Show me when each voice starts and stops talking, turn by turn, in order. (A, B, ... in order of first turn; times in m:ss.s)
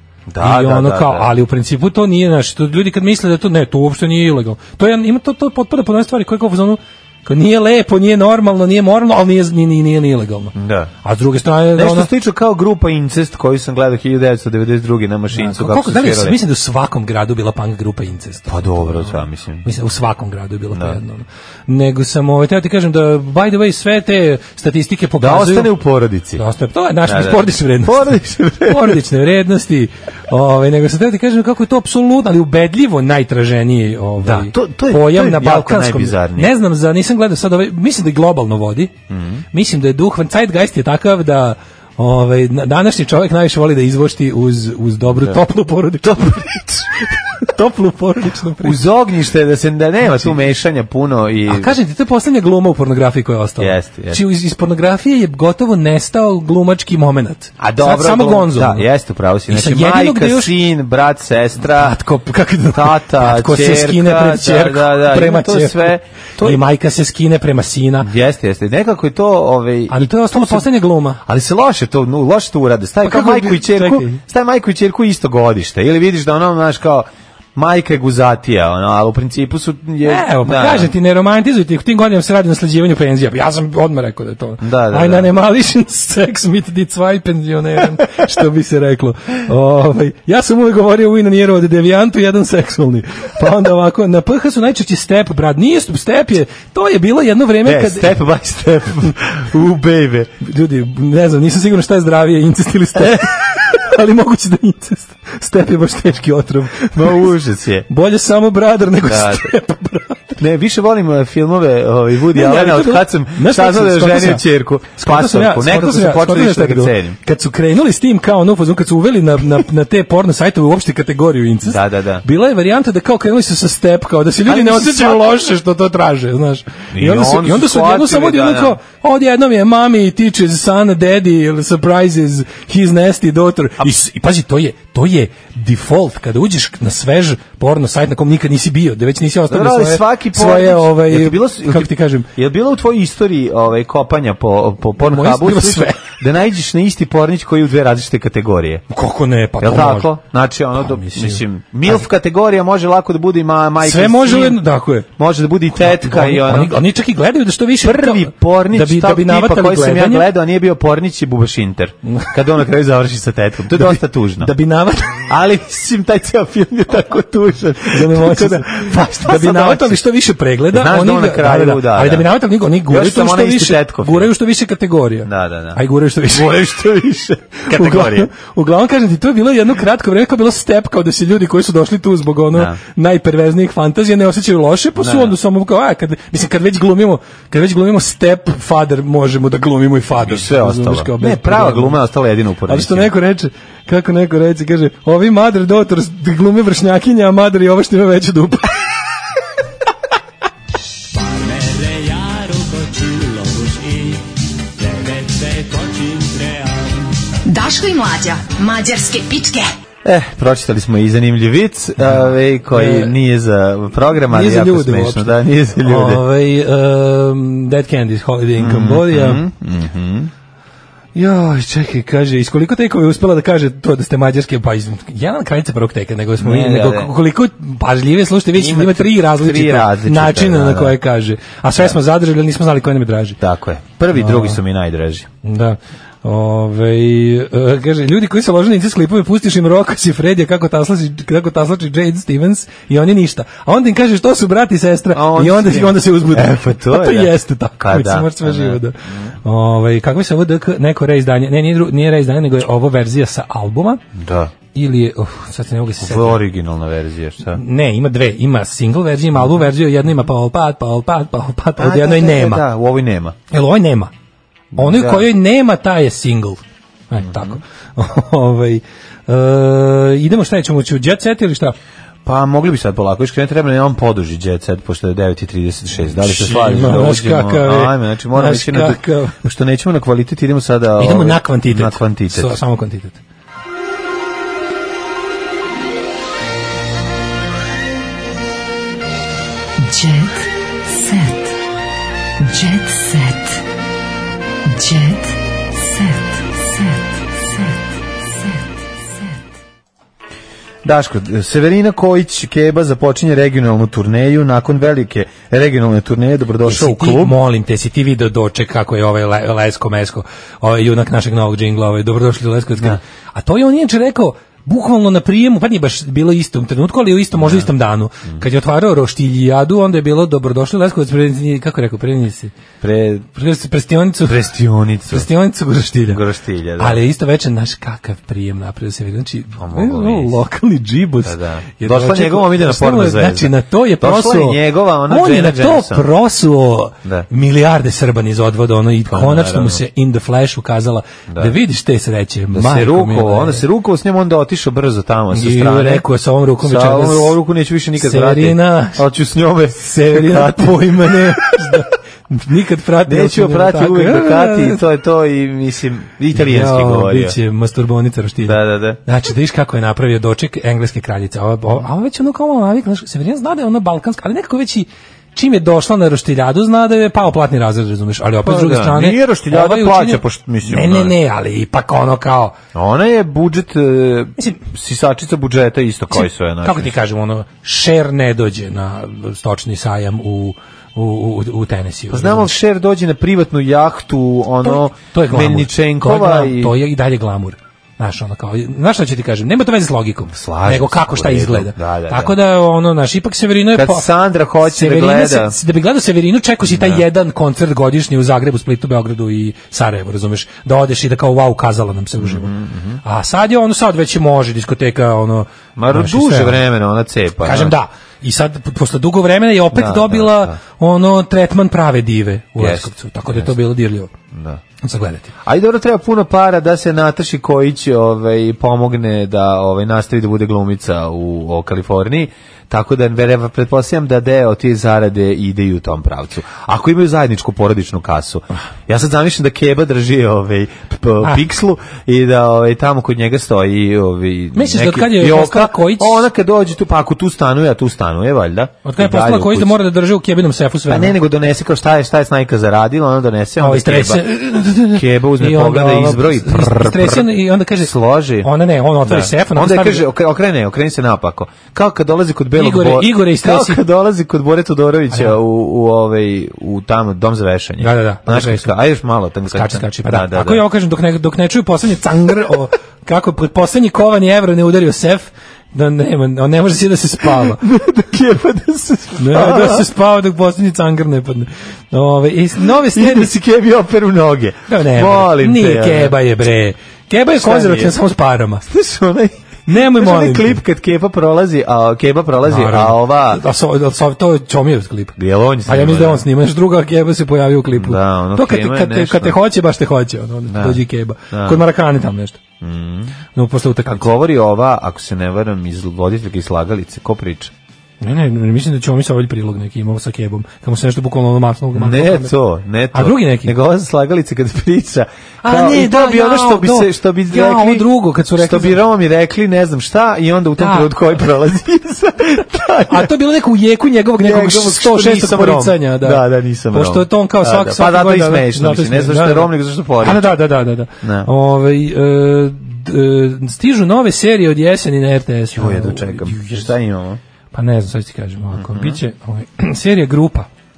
0:00.3-0:01.3 A
0:00.4-0:12.1 B
0:10.5-0:10.9 A
0:11.7-0:16.4 A
0:15.3-0:25.7 B
0:18.5-0:19.7 A
0:20.7-0:21.0 A
0:25.2-0:26.4 A
0:26.4-0:38.9 B
0:27.0-0:29.0 A
0:34.2-0:36.5 A
0:39.1-0:39.4 A
0:39.5-0:48.8 B
0:46.0-0:46.9 A
0:48.6-0:51.8 A
0:50.0-0:50.3 B
0:51.5-0:58.8 B
0:53.6-0:54.2 A
0:57.6-1:02.0 A
0:59.5-1:00.5 B
1:01.6-1:08.1 B
1:02.7-1:06.6 A
1:08.0-1:10.7 A
1:09.9-1:11.2 B
1:11.2-1:20.9 A
1:13.0-1:14.2 B
1:20.0-1:38.2 B
1:24.6-1:25.3 A
1:37.6-1:40.3 A
1:40.4-1:47.3 B
1:43.0-1:43.2 A
1:46.9-1:47.9 A
1:47.9-1:50.4 B
1:49.0-1:49.5 A
1:50.4-1:57.2 A
1:52.3-1:54.4 B
1:55.0-2:22.3 B
2:01.6-2:02.2 A
2:04.4-2:05.4 A
2:06.9-2:08.8 A
2:19.5-2:28.8 A
2:25.0-2:26.1 B
2:28.9-2:30.1 B
2:29.6-2:34.6 A
2:30.8-2:32.0 B
2:33.8-2:35.1 B
2:35.2-2:36.8 A
2:35.7-2:40.3 B
2:37.8-2:44.5 A
2:42.1-2:42.3 B
2:43.7-2:45.3 B
2:45.2-2:50.0 A
2:47.8-2:56.6 B
2:50.7-2:52.3 A
2:52.9-2:54.3 A
2:55.2-2:55.8 A
2:56.3-2:58.3 A
2:57.7-3:12.0 B
3:02.5-3:02.8 A
3:05.0-3:05.3 A
3:10.2-3:13.1 A
3:12.6-3:18.7 B
3:21.6-3:24.1 B
3:24.9-3:26.6 B
3:27.4-3:29.7 C
3:30.0-3:36.2 A
3:32.7-3:33.1 B
3:34.3-3:39.4 B
3:38.6-3:40.3 A
3:41.1-3:53.4 B
3:46.4-3:47.1 A
3:48.5-3:51.0 A
3:53.4-3:55.3 A
3:54.1-3:54.6 B
3:55.4-4:14.0 B
4:05.1-4:09.4 A
4:14.1-4:14.5 A
4:14.7-4:16.4 B
4:16.0-4:17.6 A
4:17.5-4:22.6 B
4:19.4-4:19.6 A
4:21.8-4:23.4 A
4:23.5-4:24.1 B
4:24.7-4:25.3 A
4:24.8-4:31.8 B
4:27.2-4:27.6 A
4:32.2-4:42.6 A
4:36.2-4:39.4 B
4:41.0-4:43.2 B
4:49.9-4:50.3 C
4:51.0-4:51.3 C
4:52.5-4:53.5 C
4:54.7-4:55.3 C
5:00.8-5:07.4 A
5:06.6-5:22.5 B
5:17.4-5:17.7 A
5:22.8-5:23.3 A
5:23.3-5:24.4 B
5:24.2-5:25.3 A
5:25.1-5:26.2 B
5:26.1-5:27.0 A
5:26.8-5:43.6 B
5:29.6-5:30.4 A
5:31.2-5:36.1 A
5:39.1-5:39.8 A
5:41.3-5:41.6 A
5:42.5-5:46.0 A
5:45.3-5:47.4 B
5:46.6-5:51.8 A
5:48.0-5:49.0 B
5:49.8-5:54.8 B
5:53.0-5:57.4 A
5:56.3-6:12.5 B
5:58.4-5:59.0 A
6:08.4-6:11.1 A
6:12.7-6:16.9 A
6:16.1-6:22.5 B
6:22.1-6:26.8 A
6:24.6-6:34.1 B
6:30.3-6:32.4 A
6:33.7-6:35.6 A
6:34.6-6:42.5 B
6:36.6-6:37.0 A
6:42.2-6:43.0 A
6:43.0-6:46.6 B
6:45.8-6:47.7 A
6:47.4-6:54.1 B
6:49.7-6:50.6 A
6:52.6-6:53.6 A
6:54.3-6:54.6 A
6:54.8-6:55.3 B
6:55.4-7:19.8 A
7:14.5-7:16.2 B
7:18.8-7:21.2 B
7:20.9-7:28.5 A
7:23.6-7:30.0 B
7:29.0-7:40.6 A
7:32.6-7:33.8 B
7:37.8-7:38.7 B
7:39.5-7:47.6 B
7:47.2-7:49.9 A
7:49.2-7:53.3 B
7:52.6-7:56.2 A
7:54.7-7:58.6 B
7:57.3-7:58.0 A
7:58.6-8:03.4 A
7:59.7-8:00.6 B
8:02.4-8:12.4 B
8:05.2-8:06.2 A
8:07.7-8:09.4 A
8:10.5-8:11.6 A
8:12.6-8:13.1 A
8:13.3-8:14.0 B
8:13.9-8:17.5 A
8:18.0-8:22.3 B
8:21.7-8:33.1 A
8:22.9-8:23.5 B
8:25.4-8:28.8 B
8:30.6-8:30.9 B
8:32.9-8:39.5 B
8:34.2-8:40.3 A
8:40.0-8:46.7 B
8:41.0-8:41.3 A
8:45.5-8:47.2 A
8:47.5-8:50.5 B
8:48.5-8:49.0 A